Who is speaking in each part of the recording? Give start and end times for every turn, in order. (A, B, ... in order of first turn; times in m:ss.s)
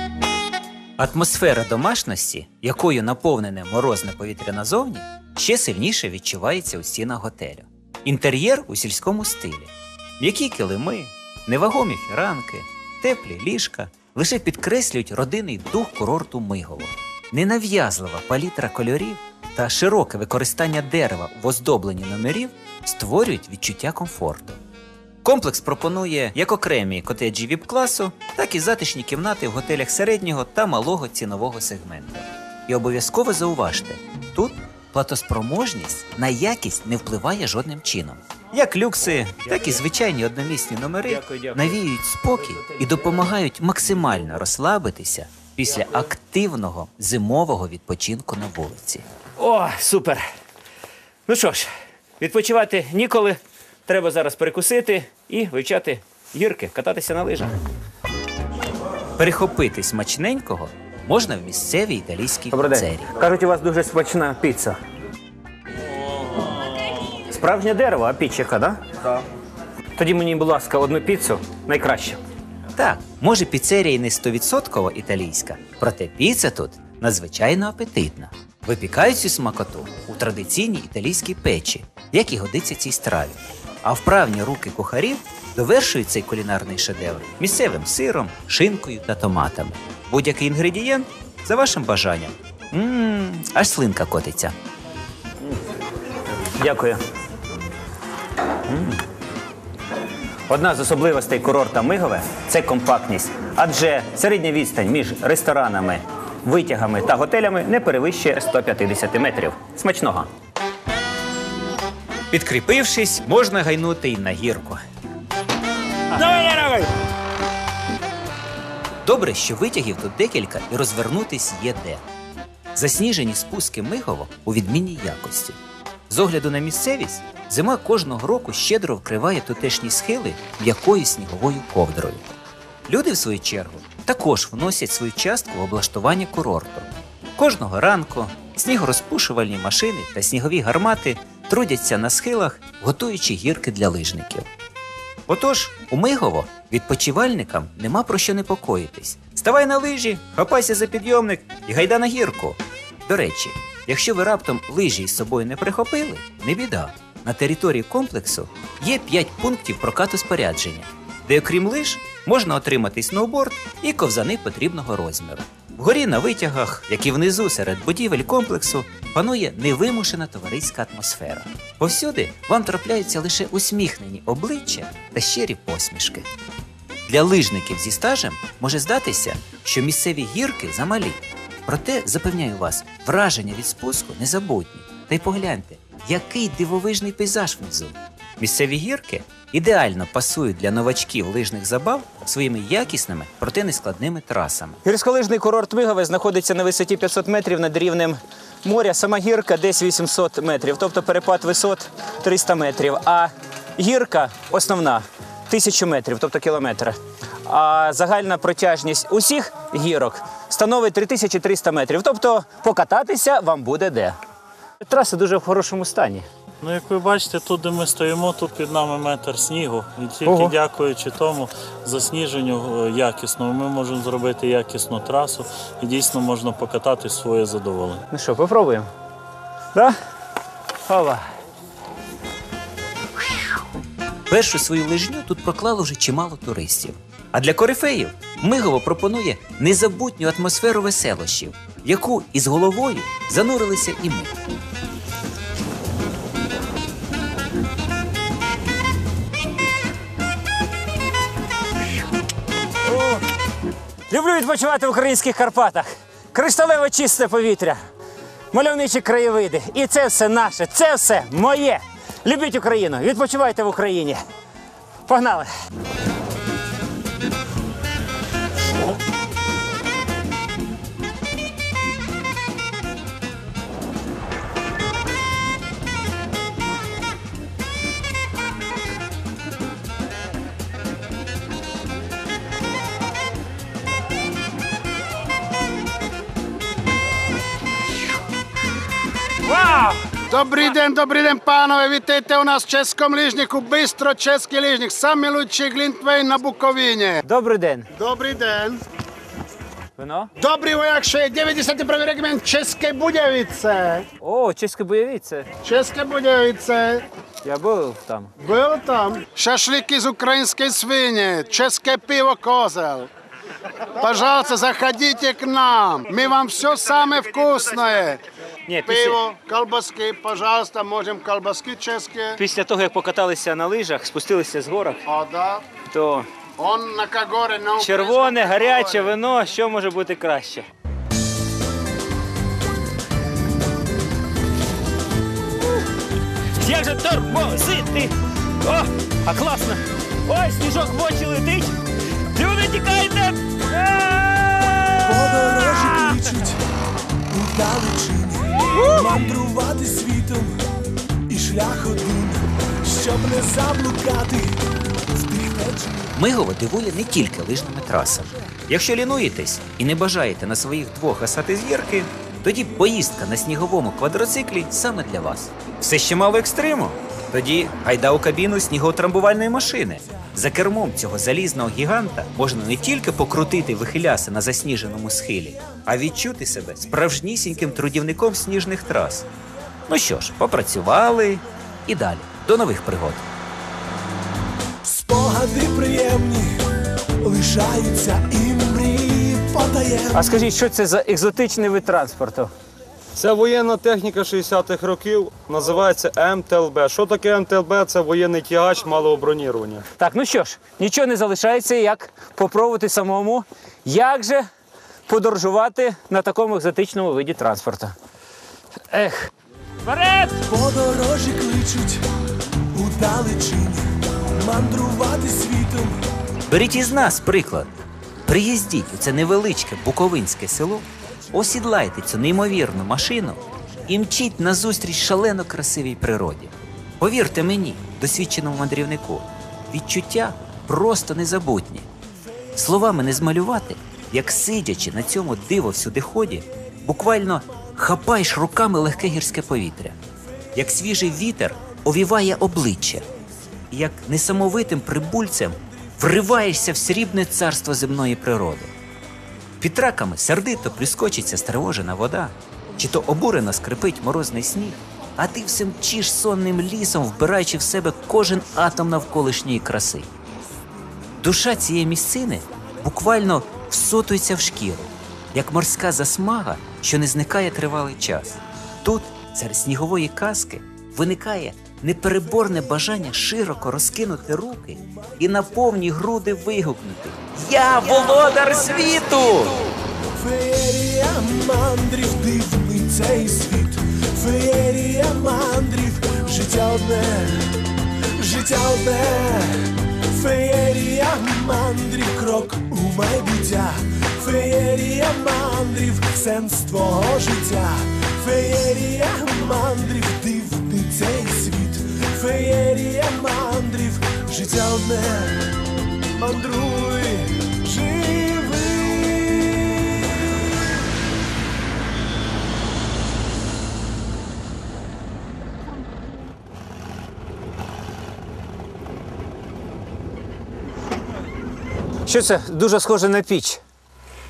0:01.0-0:24.6 A
0:25.2-0:49.0 A
0:41.1-0:41.8 B
0:49.4-0:50.2 B
0:51.3-0:57.6 B
0:59.2-1:03.1 A
1:02.5-1:04.8 B
1:07.3-1:08.8 B
1:09.9-1:12.2 B
1:12.7-1:34.5 A
1:36.5-1:37.0 B
1:38.7-1:39.0 B
1:40.5-1:50.3 B
1:52.3-1:54.8 A
1:56.1-1:56.9 B
1:59.0-2:02.0 A
2:02.7-2:05.6 A
2:06.1-2:12.2 A
2:12.9-2:24.5 A
2:25.3-2:56.3 A
2:57.1-3:14.8 A
3:14.8-3:34.2 B
3:34.8-3:36.2 B
3:36.6-3:48.0 C
3:40.2-3:40.6 B
3:48.1-3:48.9 B
3:50.8-3:51.2 B
3:54.3-4:04.4 A
4:12.9-4:13.2 B
4:14.1-4:17.8 B
4:18.5-4:24.2 B
4:25.0-4:25.5 B
4:49.5-4:50.0 B
4:50.3-4:57.2 D
4:57.2-4:57.9 B
4:57.9-4:58.8 D
5:00.0-5:00.3 B
5:00.4-5:04.0 D
5:04.2-5:05.5 B
5:05.6-5:07.0 D
5:07.4-5:08.3 B
5:08.4-5:13.1 D
5:14.0-5:18.2 D
5:18.7-5:19.2 B
5:18.8-5:22.3 D
5:22.4-5:25.0 B
5:25.1-5:25.6 D
5:25.8-5:26.3 B
5:26.6-5:29.0 D
5:27.8-5:30.6 B
5:36.6-5:41.7 B
5:42.3-5:46.1 B
5:45.0-5:46.6 E
5:47.3-5:50.6 E
5:51.3-5:54.6 E
5:55.1-5:56.1 E
5:56.1-6:19.2 A
6:19.9-6:23.3 A
6:24.8-6:26.6 E
6:27.2-6:30.2 E
6:30.1-6:32.5 B
6:33.1-6:39.8 F
6:40.0-6:44.5 B
6:45.1-6:47.9 B
6:48.9-6:49.3 B
6:49.8-6:50.4 B
6:50.5-6:52.0 E
6:52.7-6:56.0 E
6:56.5-6:57.7 A
6:58.2-7:11.9 A
7:12.6-7:20.0 A
7:20.5-7:23.0 A
7:23.7-7:28.7 A
7:29.6-7:40.1 A
7:41.2-7:59.6 A
8:00.1-8:07.5 E
8:08.2-8:25.5 E
8:26.2-8:30.2 E
8:42.0-8:43.6 B